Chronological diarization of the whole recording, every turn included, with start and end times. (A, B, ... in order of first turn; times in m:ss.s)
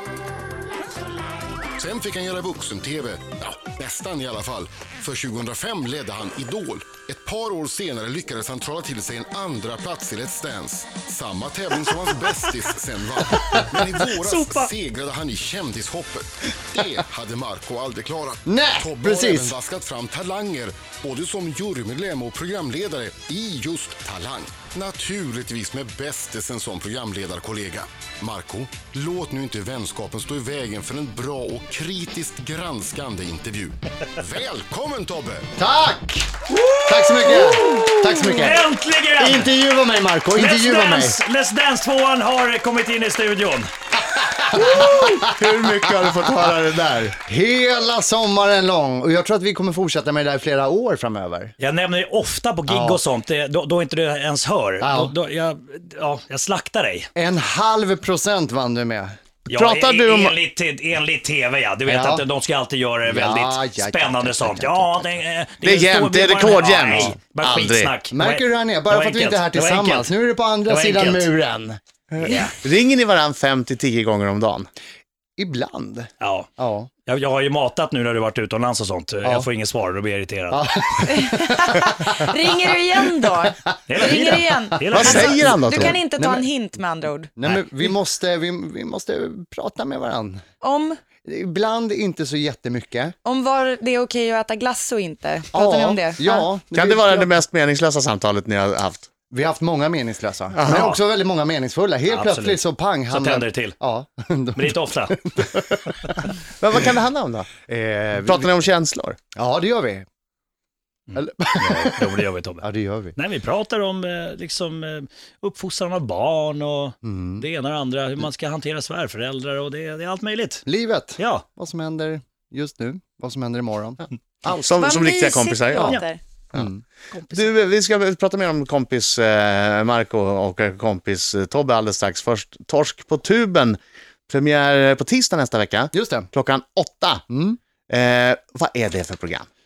0:01.8-0:35.5 A
0:13.3-0:14.7 B
0:18.5-0:19.5 C
0:35.6-0:36.3 C
0:36.5-0:39.5 B
0:36.8-0:38.6 C
0:39.2-0:41.2 C
0:40.3-0:43.7 B
0:44.0-0:46.5 C
0:44.5-0:47.1 D
0:47.1-0:51.5 C
0:51.6-0:57.1 B
0:52.7-0:53.0 C
0:54.8-0:55.1 C
0:57.2-0:59.1 C
0:59.5-1:10.1 B
0:59.5-1:00.4 D
1:01.9-1:02.2 C
1:03.0-1:05.1 C
1:05.6-1:07.9 D
1:08.1-1:12.5 C
1:10.7-1:11.3 B
1:12.6-1:14.7 D
1:15.4-1:16.9 C
1:16.2-1:16.5 B
1:17.0-1:20.9 B
1:20.5-1:22.3 C
1:21.0-1:27.3 E
1:23.2-1:26.4 C
1:23.9-1:25.6 B
1:24.9-1:26.0 D
1:27.4-1:30.4 C
1:30.6-1:31.0 E
1:31.2-1:33.1 C
1:33.2-1:36.5 E
1:35.5-1:37.3 C
1:36.7-1:39.1 D
1:39.3-1:46.0 C
1:40.6-1:41.0 D
1:42.1-1:43.8 B
1:44.6-1:45.2 B
1:46.6-1:47.5 D
1:47.6-1:48.7 C
1:48.2-1:49.2 D
1:49.3-1:50.0 C
1:51.1-2:00.6 B
1:51.1-1:53.1 C
1:57.0-1:57.4 C
2:00.6-2:04.0 C
2:01.2-2:01.4 B
2:04.5-2:06.0 D
2:04.5-2:06.2 E
2:06.5-2:06.8 C
2:07.1-2:07.5 B
2:07.3-2:17.2 D
2:15.9-2:16.3 C
2:17.3-2:17.6 C
2:17.9-2:19.5 D